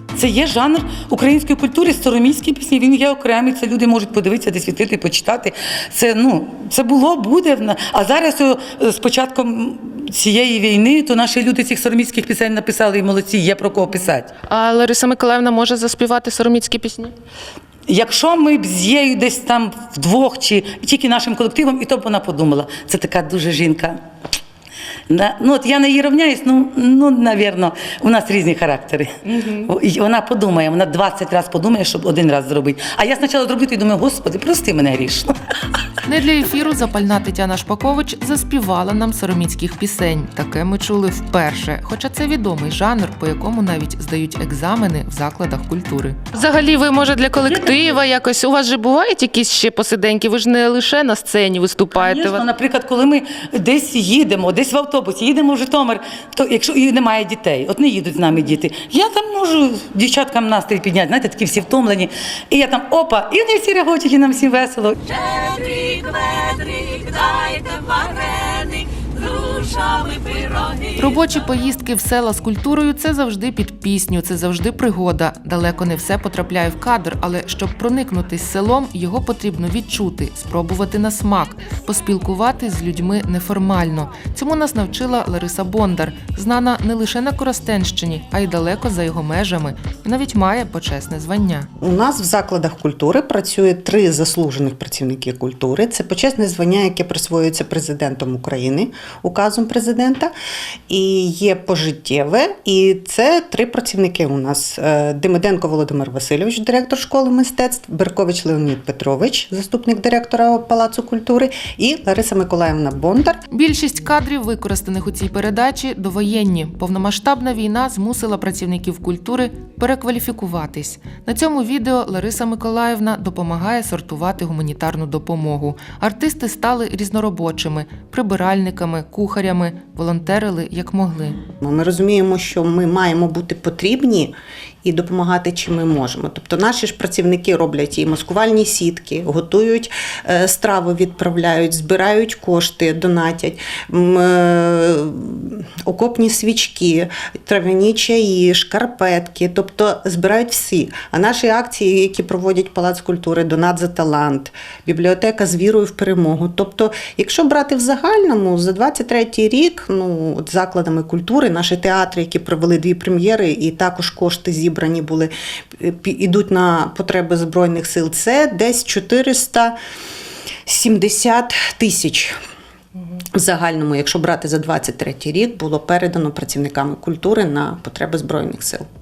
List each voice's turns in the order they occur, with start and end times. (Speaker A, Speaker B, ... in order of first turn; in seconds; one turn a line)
Speaker A: 0.2-14.3
Speaker B: 14.5-17.1
Speaker A: 17.9-24.0
Speaker A: 25.1-35.3
Speaker B: 29.3-29.7
Speaker B: 36.0-52.4
Speaker A: 47.5-47.8
Speaker A: 51.9-65.3
Speaker A: 67.1-67.6
Speaker A: 69.3-70.0
Speaker B: 71.0-91.7
Speaker C: 91.8-100.3
Speaker C: 100.9-113.4
Speaker B: 113.5-131.4
Speaker C: 131.6-169.8
Speaker C: 170.7-172.4
Speaker C: 173.3-178.9